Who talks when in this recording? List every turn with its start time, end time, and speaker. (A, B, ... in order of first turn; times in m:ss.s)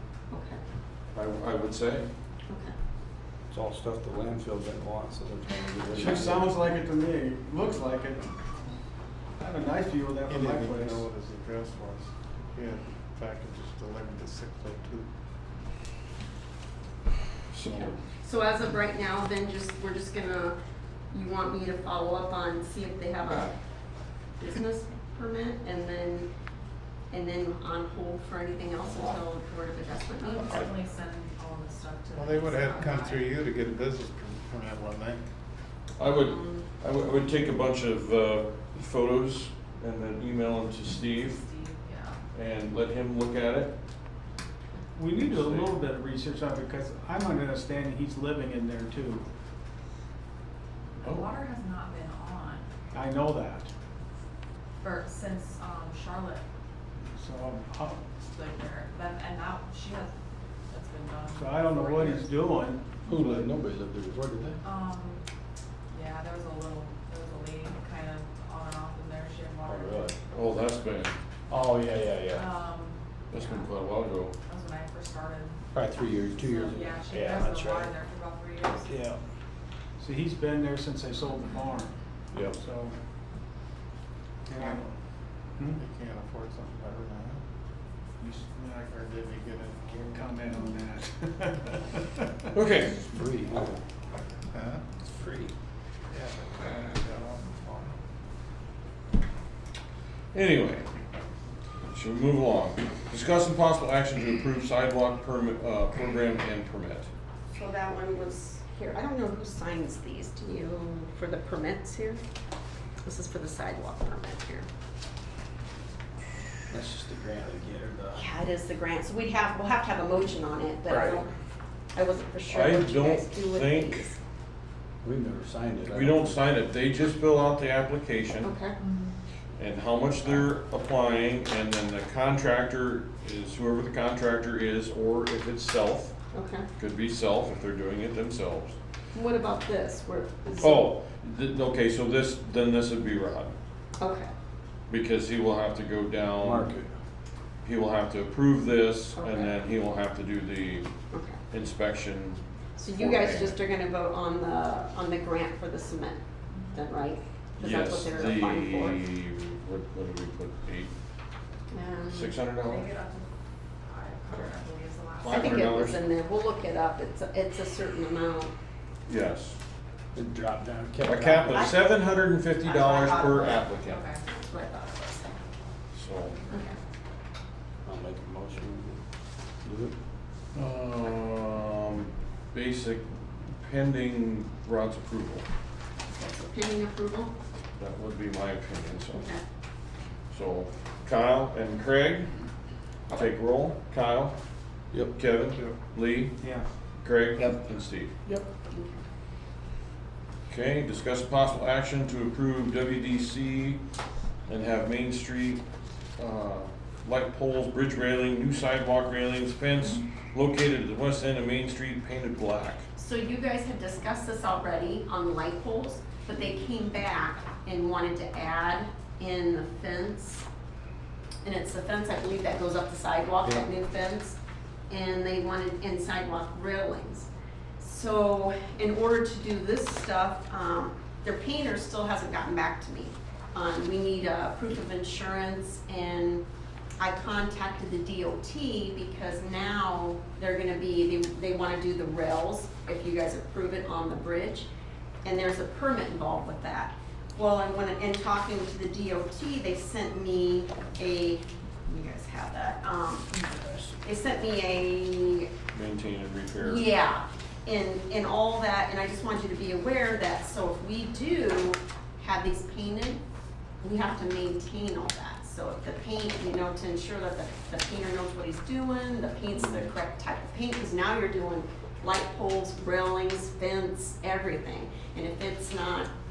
0:00.3-0:00.6 A
0:01.2-0:02.1 B
0:02.5-0:02.8 A
0:03.5-0:06.5 C
0:05.9-0:08.2 D
0:09.4-0:11.0 D
0:10.3-0:15.1 E
0:17.5-0:17.9 B
0:17.6-0:20.6 A
0:21.1-0:23.5 A
0:24.4-0:26.3 A
0:27.1-0:30.7 A
0:30.2-0:33.3 F
0:32.2-0:35.2 E
0:36.0-0:41.4 B
0:36.0-0:36.7 A
0:41.2-0:42.2 F
0:42.3-0:43.8 B
0:45.0-0:49.2 D
0:45.1-0:45.8 B
0:51.0-0:52.6 F
0:51.0-0:51.3 B
0:52.9-0:53.7 D
0:54.8-0:56.4 F
0:57.0-0:58.1 D
0:58.3-1:00.1 F
1:00.7-1:02.3 F
1:01.3-1:03.4 D
1:03.1-1:04.6 C
1:04.6-1:05.2 F
1:05.9-1:10.2 F
1:09.6-1:10.2 C
1:10.3-1:11.2 B
1:11.5-1:12.5 C
1:12.3-1:13.7 F
1:13.3-1:14.3 B
1:14.5-1:15.6 F
1:15.7-1:17.9 C
1:16.4-1:18.9 F
1:18.9-1:19.2 C
1:20.0-1:22.0 D
1:22.5-1:23.0 D
1:24.5-1:24.9 D
1:24.5-1:24.8 E
1:25.7-1:27.4 E
1:28.2-1:28.8 D
1:28.6-1:30.3 E
1:30.0-1:32.5 D
1:32.5-1:33.0 B
1:32.9-1:33.8 C
1:34.5-1:34.8 E
1:35.1-1:35.5 C
1:36.1-1:38.0 E
1:40.3-1:40.9 B
1:41.9-1:47.1 B
1:47.5-1:52.2 A
1:53.0-1:54.7 A
1:56.7-1:58.2 C
1:58.1-2:01.3 A
2:02.0-2:04.2 A
2:02.5-2:04.1 B
2:05.0-2:06.4 C
2:05.9-2:08.5 B
2:08.4-2:08.8 A
2:08.8-2:09.2 F
2:09.6-2:16.1 B
2:16.3-2:16.7 A
2:16.8-2:18.8 B
2:19.1-2:20.9 A
2:20.5-2:23.6 B
2:24.0-2:24.3 A
2:24.9-2:26.7 B
2:26.4-2:26.9 C
2:27.6-2:30.9 B
2:29.2-2:29.6 A
2:31.1-2:31.4 A
2:31.5-2:33.6 B
2:32.8-2:36.2 A
2:36.7-2:39.0 A
2:37.6-2:40.9 B
2:41.7-2:42.3 A
2:42.1-2:42.9 B
2:42.6-2:43.3 F
2:43.8-2:45.6 F
2:45.2-2:46.0 B
2:45.2-2:48.5 A
2:49.1-2:49.6 B
2:50.1-2:51.7 C
2:51.0-2:54.1 B
2:51.5-2:51.8 A
2:52.6-2:53.7 A
2:53.9-2:54.2 F
2:54.3-2:55.4 A
2:55.9-2:56.4 B
2:56.5-2:56.8 A
2:57.8-2:59.0 C
2:59.6-3:00.0 C
3:00.6-3:05.4 B
3:06.1-3:07.3 A
3:07.8-3:09.3 B
3:09.1-3:09.4 A
3:10.3-3:12.3 B
3:13.1-3:14.4 B
3:15.1-3:16.4 B
3:15.5-3:15.8 E
3:16.4-3:16.7 D
3:17.0-3:18.1 B
3:18.7-3:19.0 A
3:20.5-3:23.8 B
3:24.5-3:25.6 B
3:26.2-3:32.8 B
3:33.0-3:40.5 A
3:41.4-3:44.4 A
3:44.9-3:56.4 A
3:57.0-4:04.7 A
4:05.2-4:15.5 A
4:15.7-4:16.8 B
4:16.6-4:23.2 A
4:23.8-4:36.1 A